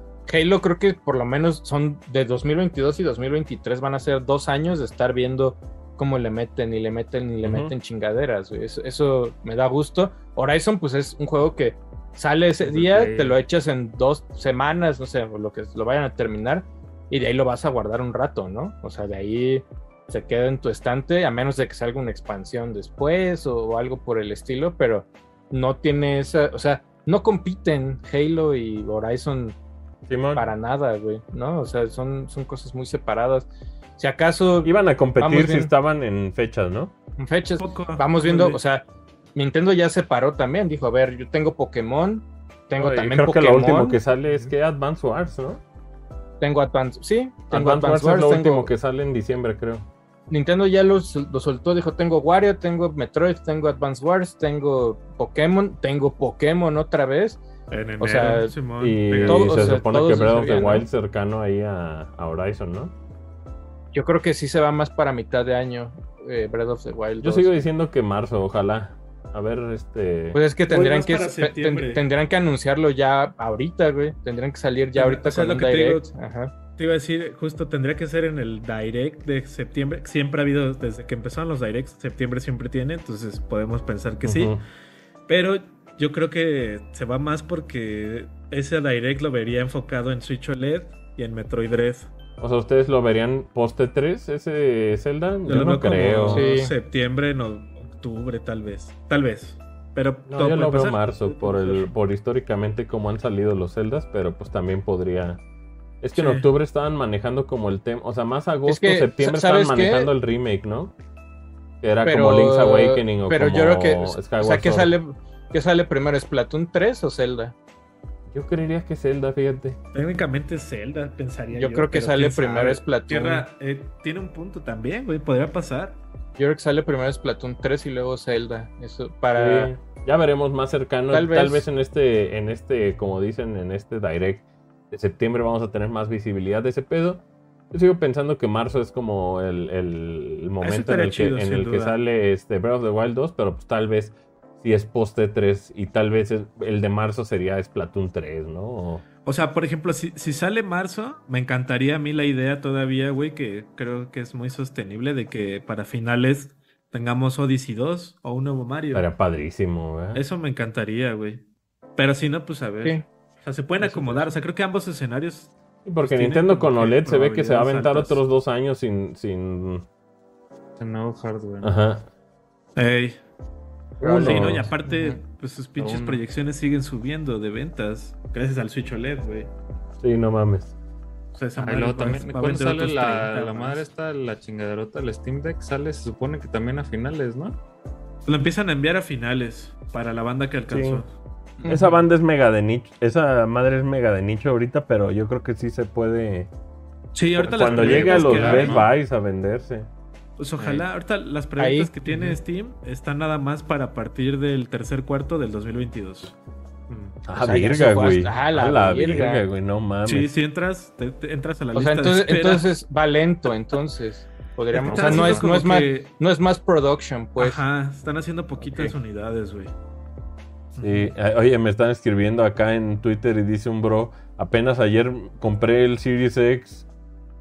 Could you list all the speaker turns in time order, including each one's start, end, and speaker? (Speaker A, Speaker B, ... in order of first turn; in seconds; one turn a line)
Speaker A: 0.3-29.6
Speaker B: 7.4-7.7
Speaker C: 12.6-13.4
Speaker B: 30.1-30.5
Speaker A: 30.4-35.7
Speaker B: 34.6-36.9
Speaker A: 37.2-44.5
Speaker D: 37.6-38.6
Speaker B: 42.8-45.6
Speaker A: 46.4-48.7
Speaker B: 47.5-49.9
Speaker A: 50.3-57.4
Speaker D: 57.7-59.9
Speaker A: 58.0-58.5
Speaker B: 58.8-63.0
Speaker A: 59.2-60.9
Speaker A: 63.9-67.5
Speaker B: 67.2-70.4
Speaker A: 70.3-76.5
Speaker D: 70.7-72.1
Speaker D: 75.0-76.1
Speaker D: 76.8-84.6
Speaker B: 84.2-84.6
Speaker D: 85.3-92.1
Speaker B: 92.4-96.5
Speaker D: 95.5-102.0
Speaker A: 96.3-96.7
Speaker B: 100.3-105.4
Speaker B: 106.0-110.9
Speaker D: 106.2-106.5
Speaker A: 108.7-110.1
Speaker B: 111.8-115.0
Speaker A: 112.0-117.5
Speaker B: 118.3-119.8
Speaker D: 119.9-126.0
Speaker A: 121.5-123.5
Speaker A: 126.4-129.7
Speaker B: 129.3-149.1
Speaker A: 131.1-131.7
Speaker D: 140.6-142.0
Speaker D: 149.2-159.1
Speaker B: 158.9-160.2
Speaker D: 160.1-161.4
Speaker D: 162.0-168.2
Speaker A: 163.8-164.3
Speaker B: 165.8-169.9
Speaker C: 170.8-171.7
Speaker B: 171.6-172.1
Speaker D: 172.8-173.2
Speaker B: 174.0-174.8
Speaker A: 174.0-175.2
Speaker D: 174.1-179.5
Speaker C: 175.8-176.2
Speaker B: 180.0-180.7
Speaker D: 181.3-183.8
Speaker C: 181.6-187.6
Speaker D: 188.3-191.1
Speaker B: 190.7-191.0
Speaker A: 191.6-191.9
Speaker B: 191.7-196.5
Speaker D: 197.1-198.9
Speaker B: 197.3-199.9
Speaker C: 197.7-198.9
Speaker D: 200.4-206.4
Speaker C: 200.6-200.8
Speaker A: 201.6-201.9
Speaker C: 206.9-207.2
Speaker B: 207.2-210.3
Speaker A: 207.3-209.4
Speaker D: 210.1-212.7
Speaker A: 211.8-217.6
Speaker D: 214.7-216.1
Speaker C: 214.8-215.5
Speaker D: 217.4-219.7
Speaker B: 220.7-226.8
Speaker D: 220.8-221.1